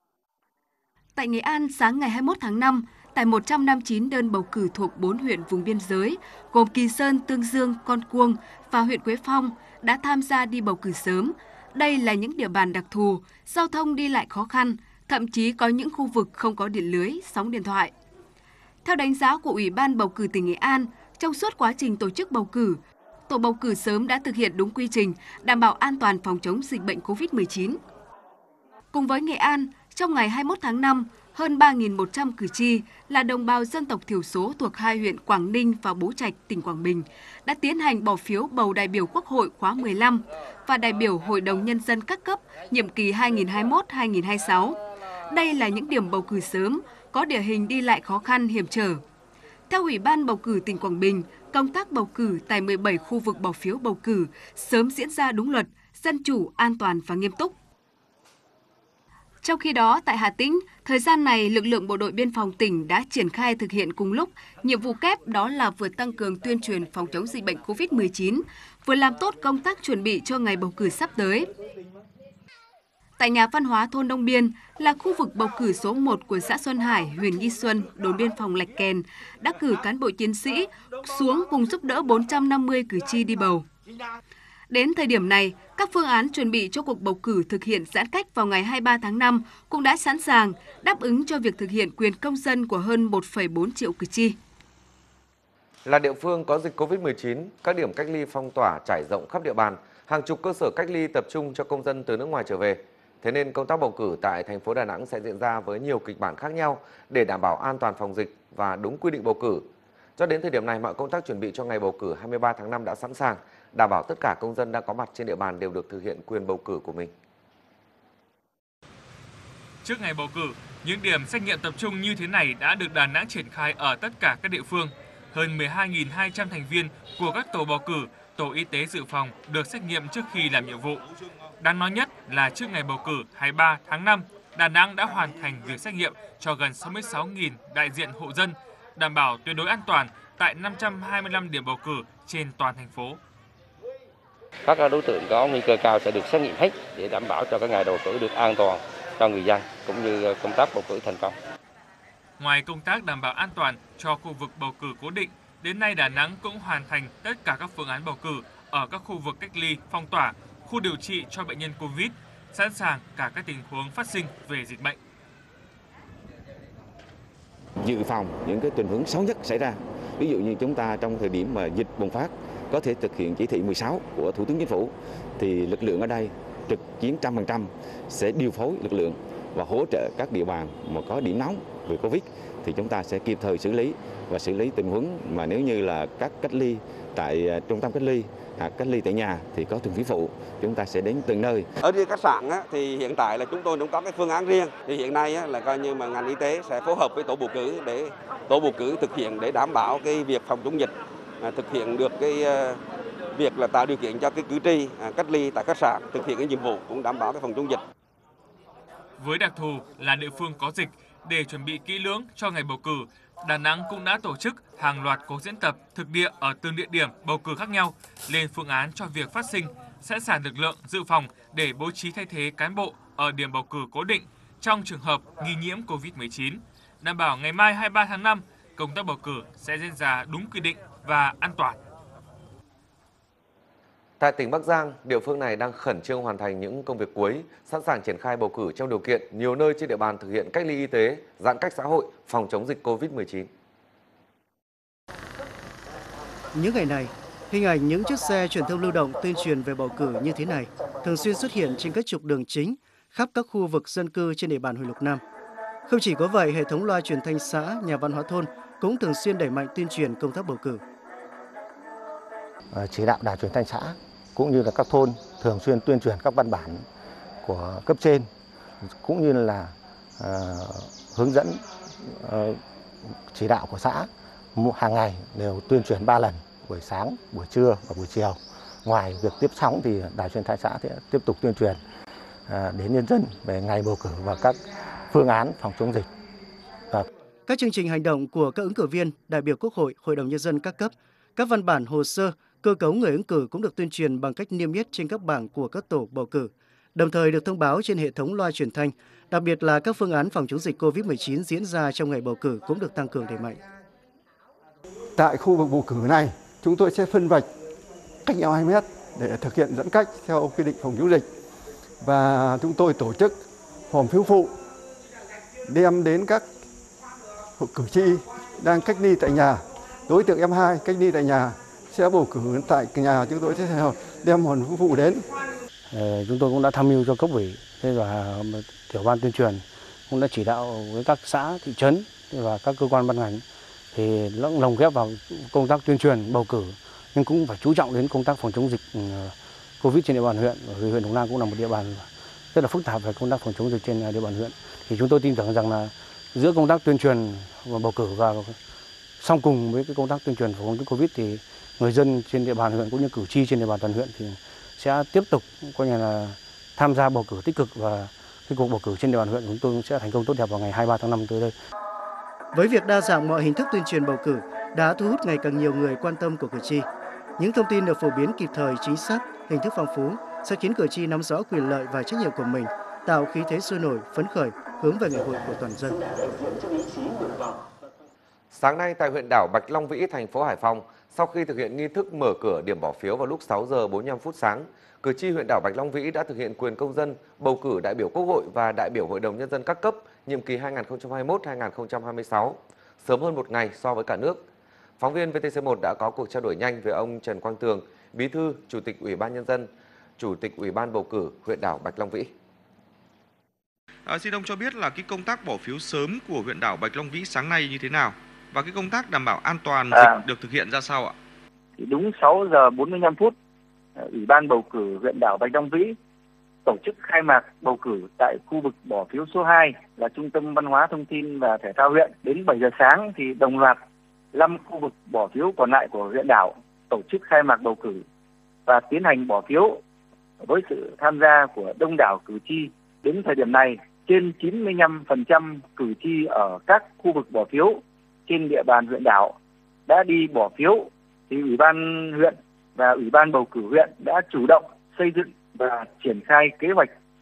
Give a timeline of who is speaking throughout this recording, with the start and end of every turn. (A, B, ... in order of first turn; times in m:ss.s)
0:01.1-0:17.9 A
0:18.8-0:27.8 A
0:28.9-0:49.0 A
0:49.7-0:57.5 A
0:59.4-1:11.5 A
1:13.2-1:23.7 A
1:24.7-1:34.4 A
1:35.8-1:49.6 B
1:50.2-1:57.1 B
1:59.8-2:11.0 C
2:11.6-2:23.2 C
2:24.6-2:31.3 D
2:32.4-2:45.0 C
2:47.8-3:11.7 E
3:11.8-3:22.8 F
3:23.3-3:27.8 F
3:29.2-3:51.8 C
3:54.2-4:03.5 B
4:06.5-4:15.2 G
4:15.8-4:20.8 G
4:22.7-4:26.8 H
4:27.4-4:28.3 H
4:29.0-4:32.6 H
4:33.3-4:41.8 H
4:42.5-4:44.6 H
4:45.1-4:46.0 H
4:47.5-5:03.6 G
5:05.2-5:07.4 I
5:08.2-5:11.2 I
5:12.0-5:13.3 I
5:13.9-5:14.5 I
5:15.7-5:16.4 I
5:17.6-5:25.2 I
5:25.9-5:48.6 J
5:49.2-6:01.5 J
6:02.5-6:06.9 G
6:07.4-6:16.0 G
6:18.5-6:34.5 B
6:35.0-6:42.3 B
6:44.0-6:51.1 K
6:49.9-6:50.2 L
6:51.8-6:53.3 L
6:54.0-6:56.0 L
6:56.6-7:03.8 L
7:04.3-7:08.0 L
7:08.6-7:09.8 L
7:10.4-7:19.3 L
7:19.9-7:26.9 L